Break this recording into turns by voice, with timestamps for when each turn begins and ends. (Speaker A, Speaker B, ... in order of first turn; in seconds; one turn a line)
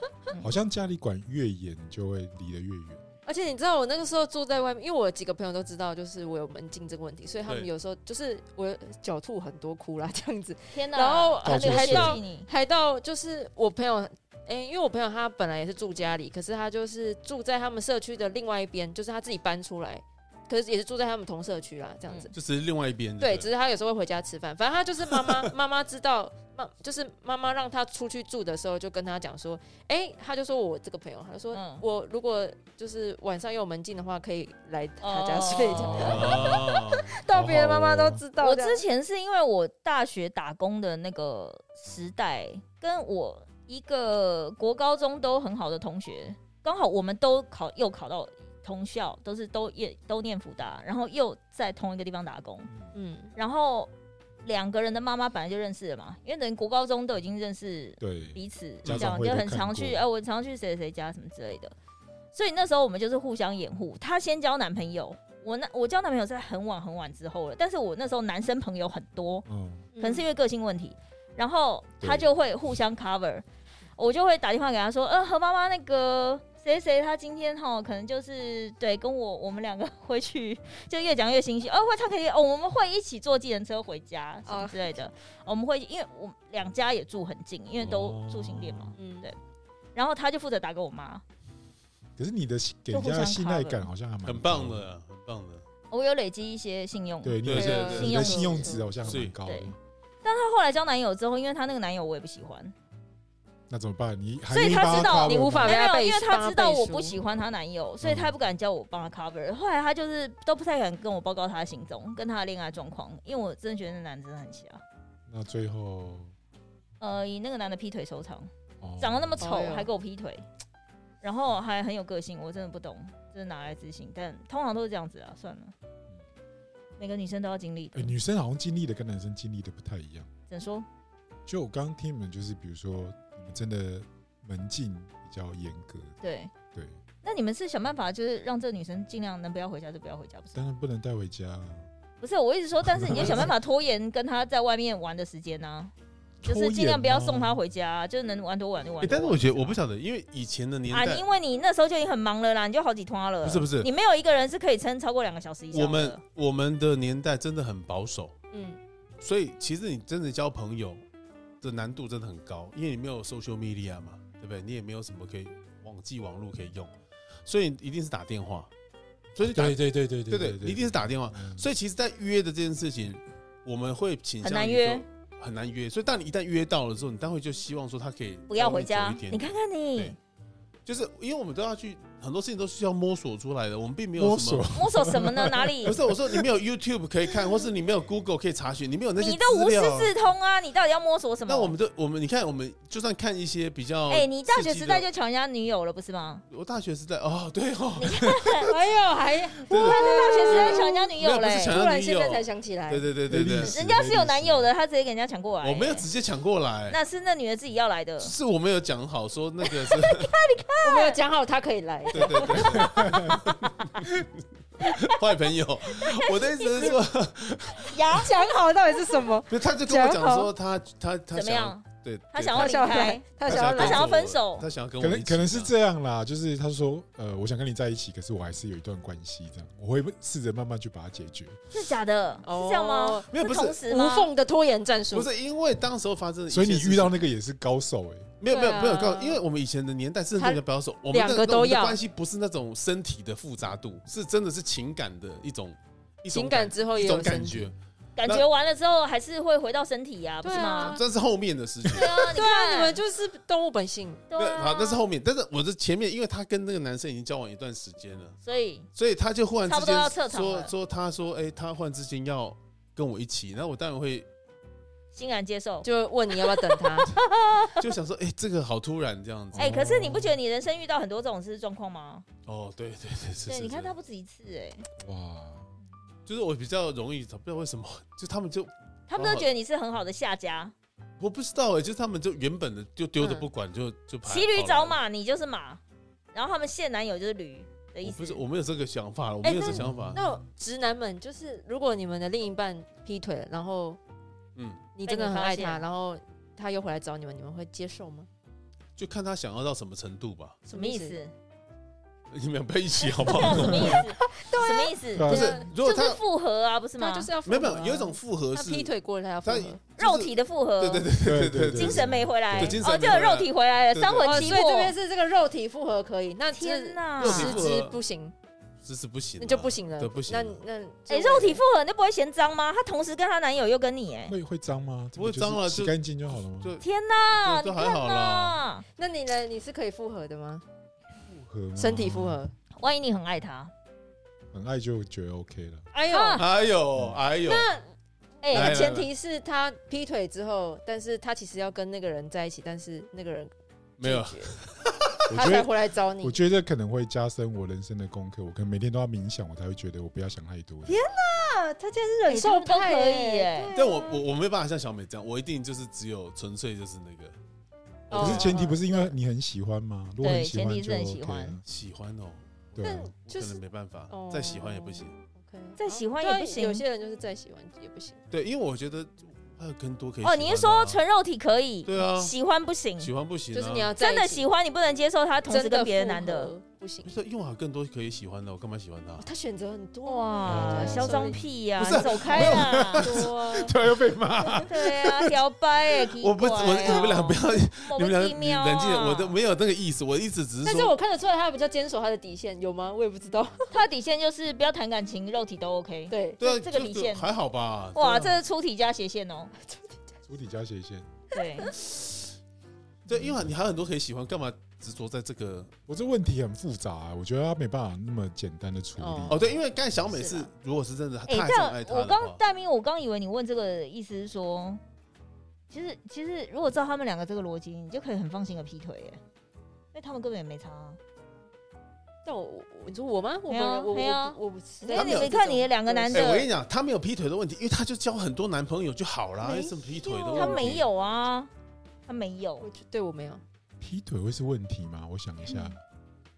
Speaker A: 0.4-3.0
Speaker B: 3.2-22.3
Speaker C: 10.7-12.5
Speaker A: 11.4-12.2
Speaker D: 22.3-23.5
Speaker B: 23.2-38.8
Speaker C: 31.5-31.8
Speaker C: 35.0-36.8
Speaker A: 35.7-36.4
Speaker D: 36.0-37.1
Speaker A: 37.3-38.2
Speaker C: 38.4-52.7
Speaker B: 52.9-53.3
Speaker C: 53.3-53.9
Speaker C: 54.4-61.7
Speaker A: 58.0-60.0
Speaker D: 58.8-59.1
Speaker C: 62.3-69.5
Speaker A: 69.5-69.9
Speaker B: 70.0-70.2
Speaker C: 70.0-73.4
Speaker A: 72.0-72.3
Speaker C: 74.0-89.4
Speaker B: 84.5-84.9
Speaker A: 87.8-88.9
Speaker B: 89.0-89.3
Speaker C: 89.9-91.2
Speaker A: 92.2-94.8
Speaker C: 92.9-93.9
Speaker D: 94.2-95.6
Speaker C: 95.9-98.8
Speaker A: 97.2-99.8
Speaker D: 97.4-98.3
Speaker B: 97.5-99.1
Speaker D: 99.0-99.3
Speaker C: 99.5-99.7
Speaker C: 100.2-102.7
Speaker A: 103.7-105.8
Speaker C: 104.5-114.8
Speaker B: 104.8-107.2
Speaker A: 108.0-108.3
Speaker A: 115.3-116.3
Speaker C: 117.0-120.4
Speaker A: 118.8-119.4
Speaker B: 119.4-119.9
Speaker C: 121.2-125.7
Speaker C: 127.0-128.2
Speaker A: 127.9-130.3
Speaker C: 130.5-130.8
Speaker A: 131.4-136.1
Speaker C: 136.2-136.5
Speaker C: 137.2-140.7
Speaker A: 140.5-141.9
Speaker C: 142.2-145.9
Speaker A: 142.8-143.5
Speaker D: 143.1-143.5
Speaker A: 146.4-147.6
Speaker C: 146.4-149.8
Speaker D: 149.0-151.2
Speaker C: 150.9-156.2
Speaker D: 153.4-153.9
Speaker D: 155.7-158.3
Speaker B: 158.5-158.8
Speaker D: 159.2-161.0
Speaker D: 161.6-166.9
Speaker D: 167.4-168.7
Speaker D: 169.3-180.2
Speaker A: 169.4-171.6
Speaker C: 174.4-175.0
Speaker C: 178.5-180.2
Speaker D: 180.8-184.7
Speaker A: 184.2-186.5
Speaker C: 184.7-185.9
Speaker D: 185.8-190.1
Speaker C: 189.2-191.7
Speaker D: 191.5-195.1
Speaker C: 194.1-196.4
Speaker D: 196.5-198.7
Speaker C: 198.0-198.7
Speaker B: 198.7-201.1
Speaker D: 199.7-203.8
Speaker C: 199.7-201.8
Speaker B: 201.7-203.1
Speaker A: 203.3-204.7
Speaker C: 203.6-206.1
Speaker D: 205.6-207.0
Speaker C: 206.9-208.3
Speaker D: 208.2-210.3
Speaker C: 209.7-211.2
Speaker B: 210.8-213.1
Speaker D: 212.1-214.3
Speaker C: 212.2-213.7
Speaker A: 212.8-213.4
Speaker D: 214.8-218.0
Speaker C: 214.8-215.2
Speaker C: 215.9-216.9
Speaker C: 217.8-218.6
Speaker B: 218.1-220.5
Speaker D: 219.5-225.7
Speaker C: 221.3-224.7
Speaker B: 222.5-224.1
Speaker A: 225.0-231.6
Speaker C: 231.7-234.3
Speaker B: 232.4-235.3
Speaker D: 233.3-233.8
Speaker D: 235.1-237.2
Speaker A: 236.5-238.3
Speaker D: 238.4-248.4
Speaker B: 238.5-239.4
Speaker B: 240.3-242.0
Speaker B: 246.3-247.7
Speaker C: 248.2-251.0
Speaker B: 250.4-251.0
Speaker D: 250.5-252.3
Speaker C: 251.9-253.0
Speaker B: 252.0-254.2
Speaker C: 254.3-255.0
Speaker D: 254.3-258.4
Speaker C: 258.4-258.9
Speaker D: 258.9-264.3
Speaker C: 259.7-260.7
Speaker C: 265.1-265.9
Speaker B: 265.8-267.1
Speaker C: 266.4-267.8
Speaker D: 267.7-269.7
Speaker A: 269.5-270.4
Speaker C: 269.6-272.2
Speaker D: 272.4-273.9
Speaker C: 273.5-274.9
Speaker A: 275.0-275.7
Speaker D: 276.2-279.5
Speaker C: 279.1-280.7
Speaker D: 281.2-285.0
Speaker B: 283.2-283.5
Speaker C: 284.2-285.8
Speaker C: 286.3-288.4
Speaker D: 288.0-290.2
Speaker B: 289.4-294.0
Speaker A: 289.7-290.3
Speaker D: 294.6-294.9
Speaker B: 294.9-298.3
Speaker C: 295.0-295.8
Speaker D: 299.0-300.6
Speaker B: 300.6-301.2
Speaker C: 300.7-301.3
Speaker D: 302.3-304.0
Speaker C: 303.2-307.3
Speaker A: 303.4-304.0
Speaker B: 303.5-305.7
Speaker A: 305.1-305.6
Speaker D: 305.2-306.2
Speaker B: 307.0-309.8
Speaker D: 307.4-314.6
Speaker C: 310.0-311.1
Speaker A: 311.2-312.8
Speaker C: 311.7-314.9
Speaker B: 314.2-318.3
Speaker C: 316.5-317.6
Speaker D: 317.2-318.0
Speaker D: 318.8-320.6
Speaker B: 319.4-321.6
Speaker C: 321.1-324.3
Speaker A: 324.3-326.7
Speaker D: 325.2-325.9
Speaker D: 326.5-328.6
Speaker C: 326.8-328.8
Speaker B: 328.9-330.6
Speaker A: 331.3-332.4
Speaker B: 331.8-332.5
Speaker C: 332.8-333.7
Speaker A: 334.5-335.9
Speaker C: 335.9-336.4
Speaker D: 336.1-337.7
Speaker A: 336.9-337.2
Speaker B: 337.4-337.9
Speaker C: 338.4-338.9
Speaker B: 338.5-343.5
Speaker D: 338.5-339.1
Speaker D: 344.0-345.2
Speaker B: 344.0-344.5
Speaker A: 345.3-351.0
Speaker B: 345.3-346.4
Speaker B: 350.9-354.2
Speaker C: 352.3-353.7
Speaker D: 353.7-357.3
Speaker D: 358.1-358.6
Speaker B: 358.1-359.1
Speaker A: 358.1-361.6
Speaker C: 360.2-361.6
Speaker D: 361.6-365.1
Speaker A: 362.7-363.1
Speaker B: 362.8-368.2
Speaker C: 365.8-366.8
Speaker D: 368.3-371.0
Speaker C: 370.2-373.1
Speaker D: 371.9-372.3
Speaker D: 373.0-373.9
Speaker B: 373.5-374.4
Speaker C: 374.0-376.5
Speaker B: 375.5-377.1
Speaker D: 377.0-379.3
Speaker B: 379.2-383.7
Speaker C: 380.0-383.1
Speaker A: 380.4-381.3
Speaker D: 381.8-383.2
Speaker A: 382.3-385.3
Speaker C: 384.7-389.3
Speaker D: 386.2-390.9
Speaker B: 390.6-393.8
Speaker C: 393.7-397.3
Speaker B: 396.1-396.4
Speaker D: 396.4-398.4
Speaker C: 397.9-399.5
Speaker A: 400.3-401.1
Speaker C: 401.3-401.7
Speaker A: 403.1-403.4
Speaker D: 403.1-405.7
Speaker A: 405.9-409.5
Speaker B: 409.0-409.4
Speaker D: 409.3-412.4
Speaker B: 410.1-410.5
Speaker C: 411.3-414.8
Speaker C: 415.7-419.2
Speaker C: 419.9-421.0
Speaker B: 422.2-426.4
Speaker C: 423.5-426.5
Speaker D: 424.9-425.3
Speaker D: 426.1-430.8
Speaker B: 429.4-430.8
Speaker C: 430.3-431.5
Speaker C: 432.1-432.6
Speaker B: 432.6-433.4
Speaker A: 433.8-435.8